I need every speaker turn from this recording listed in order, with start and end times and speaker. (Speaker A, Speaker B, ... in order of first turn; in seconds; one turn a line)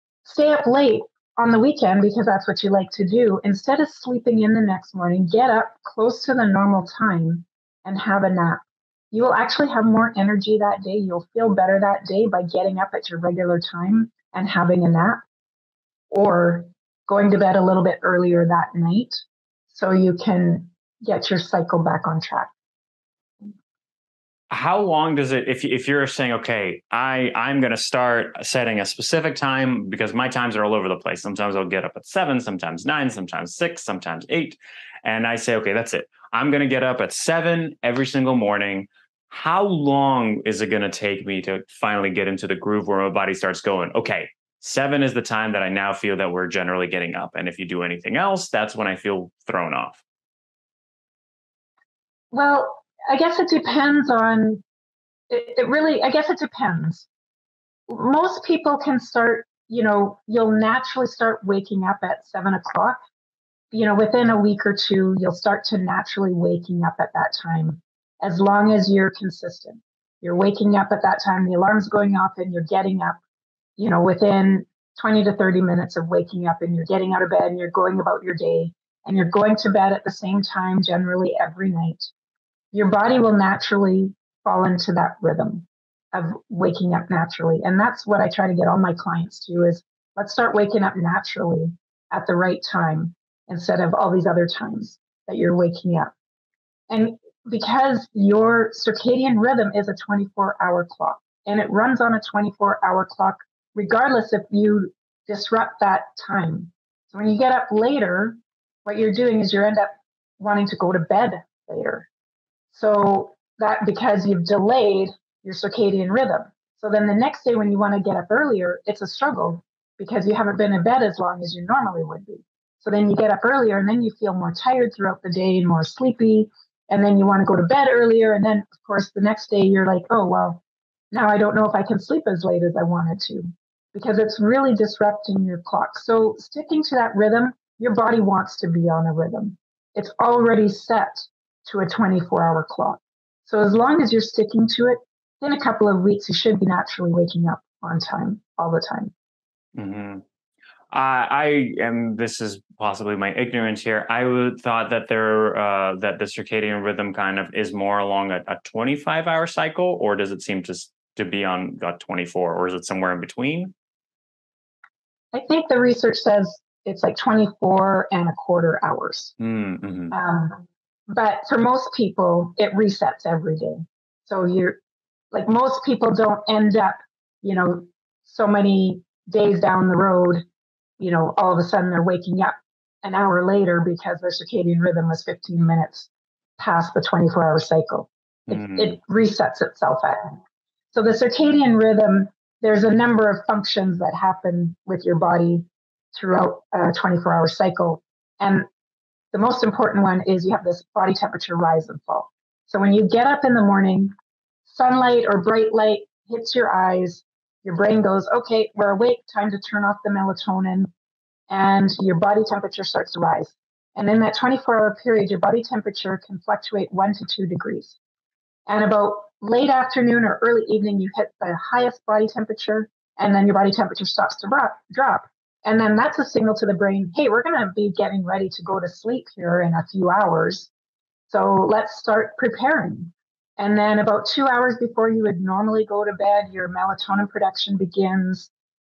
Speaker A: 0.2-15.2
Speaker A: 16.1-22.5
Speaker B: 24.5-50.0
Speaker A: 52.3-54.6
Speaker A: 55.3-57.1
Speaker A: 57.9-63.0
Speaker A: 63.7-73.2
Speaker A: 73.8-82.1
Speaker A: 82.7-96.1
Speaker A: 96.9-112.1
Speaker A: 112.7-130.6
Speaker A: 131.1-149.1
Speaker B: 149.7-150.2
Speaker B: 150.9-163.7
Speaker A: 165.3-169.3
Speaker B: 169.4-170.1
Speaker A: 170.1-174.8
Speaker A: 175.3-180.4
Speaker A: 181.0-190.4
Speaker B: 188.5-188.9
Speaker A: 190.9-198.7
Speaker A: 199.3-204.1
Speaker A: 204.7-210.9
Speaker A: 211.5-218.0
Speaker A: 218.7-230.7
Speaker A: 231.3-238.5